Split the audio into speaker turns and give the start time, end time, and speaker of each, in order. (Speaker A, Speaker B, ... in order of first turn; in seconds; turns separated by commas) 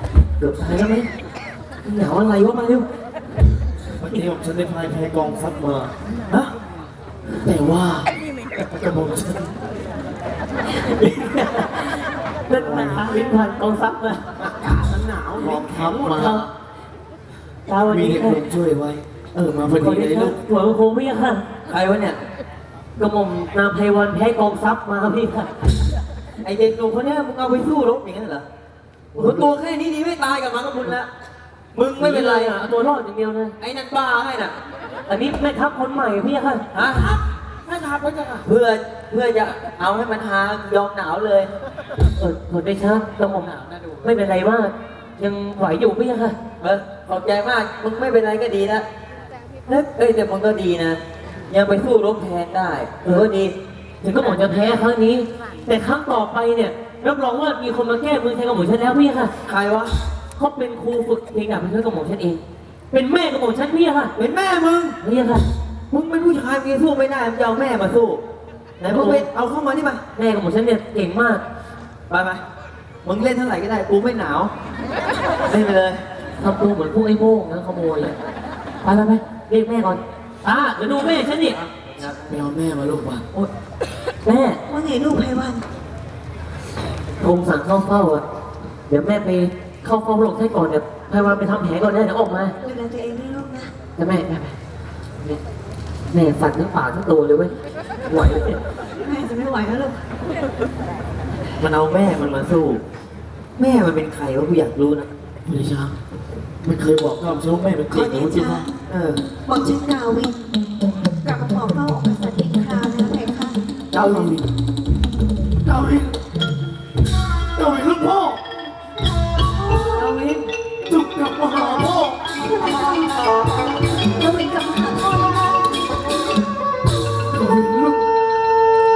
Speaker A: 0.4-1.1, Speaker A: 1.8-2.8, Speaker B: 4.0-5.9, Speaker B: 7.4-9.6, Speaker A: 10.7-14.2, Speaker B: 12.5-13.1, Speaker B: 14.4-16.5, Speaker C: 15.2-16.0, Speaker A: 16.0-16.5, Speaker A: 17.7-18.4, Speaker B: 17.8-20.4, Speaker A: 19.7-21.4, Speaker C: 21.7-22.2, Speaker A: 23.0-25.5, Speaker C: 26.4-28.4, Speaker B: 29.1-29.5, Speaker C: 29.1-31.1, Speaker C: 31.7-32.6, Speaker A: 32.0-33.5, Speaker C: 33.6-34.5, Speaker A: 35.1-36.6, Speaker C: 36.7-37.1, Speaker A: 37.7-38.4, Speaker C: 38.4-41.5, Speaker A: 42.2-46.4, Speaker C: 46.6-48.9, Speaker C: 49.7-53.5, Speaker A: 54.0-59.3, Speaker C: 54.2-54.5, Speaker C: 59.4-59.9, Speaker A: 60.4-62.4, Speaker A: 62.9-64.1, Speaker C: 64.2-65.0, Speaker A: 65.0-65.4, Speaker C: 65.9-68.2, Speaker C: 68.8-70.0, Speaker A: 68.8-69.3, Speaker A: 70.1-71.4, Speaker C: 72.1-72.4, Speaker C: 73.0-74.5, Speaker C: 75.5-76.0, Speaker A: 76.4-78.2, Speaker A: 78.8-81.6, Speaker C: 80.9-82.4, Speaker B: 82.3-83.2, Speaker A: 84.2-84.6, Speaker D: 84.7-85.6, Speaker A: 87.2-88.2, Speaker A: 88.9-92.5, Speaker D: 92.6-93.7, Speaker A: 94.0-94.5, Speaker A: 96.1-97.5, Speaker A: 98.1-98.6, Speaker D: 99.0-100.0, Speaker C: 101.6-102.8, Speaker C: 103.6-105.1, Speaker B: 105.4-105.9, Speaker B: 106.6-108.7, Speaker D: 107.9-108.7, Speaker C: 108.9-109.2, Speaker D: 109.4-110.4, Speaker D: 111.0-113.6, Speaker C: 113.9-114.4, Speaker B: 113.9-114.4, Speaker B: 115.6-116.2, Speaker B: 117.5-118.4, Speaker D: 119.7-120.0, Speaker A: 120.0-120.4, Speaker B: 120.9-122.2, Speaker D: 122.4-123.3, Speaker D: 124.1-125.9, Speaker B: 127.3-128.0